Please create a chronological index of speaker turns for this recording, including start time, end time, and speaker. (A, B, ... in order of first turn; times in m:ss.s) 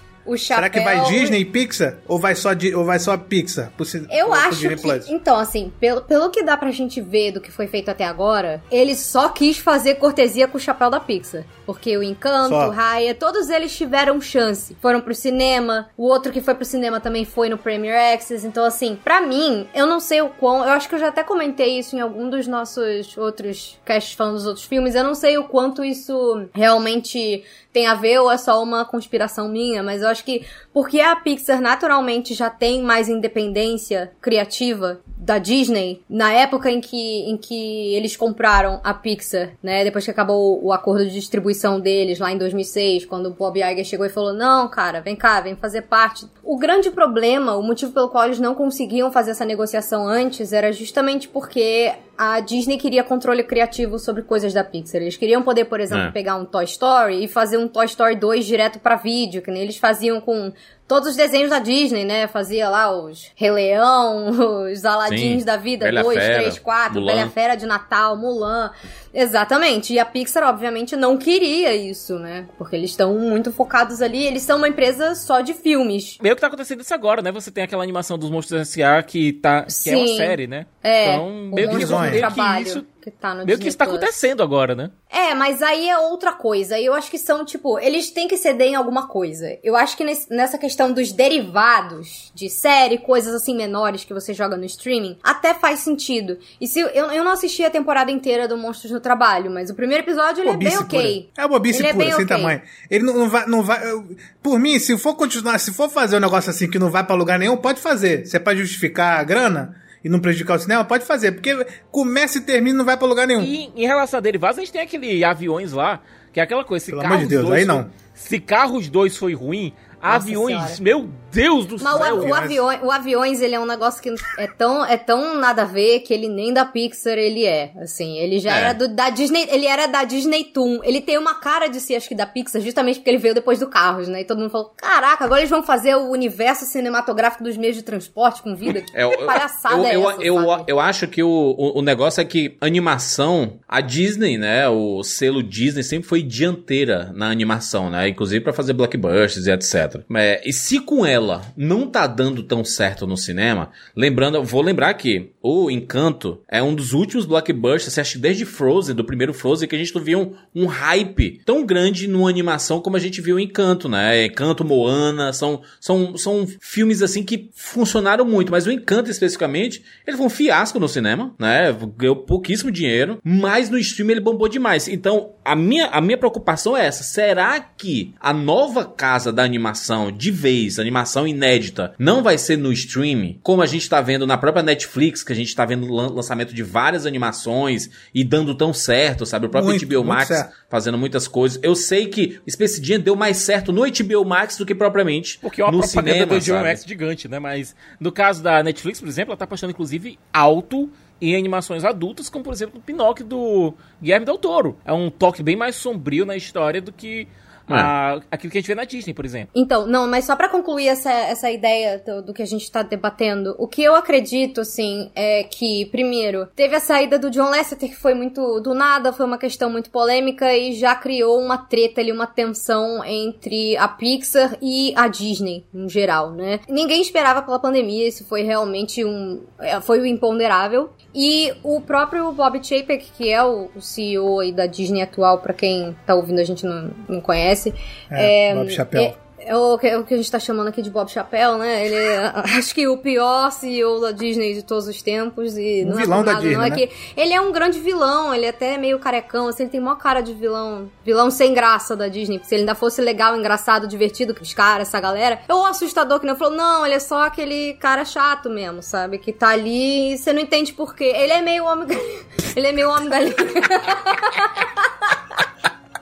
0:00.2-0:01.4 A
0:00.5-0:05.1 B
0:04.1-1:16.2 A
0:12.4-0:12.7 B
1:05.0-1:07.3 C
1:16.2-1:22.8 D
1:19.7-1:24.1 A
1:21.6-1:22.3 B
1:23.4-1:24.9 D
1:25.1-1:42.5 A
1:40.4-1:53.5 B
1:53.4-2:02.4 D
1:56.9-1:57.9 B
2:00.1-2:00.8 A
2:01.8-2:20.6 A
2:02.0-2:02.6 B
2:08.5-2:08.8 C
2:18.9-3:16.8 C
3:09.5-3:10.5 B
3:15.4-3:29.5 D
3:29.5-4:25.2 A
3:58.1-3:59.1 B
4:05.8-4:06.8 B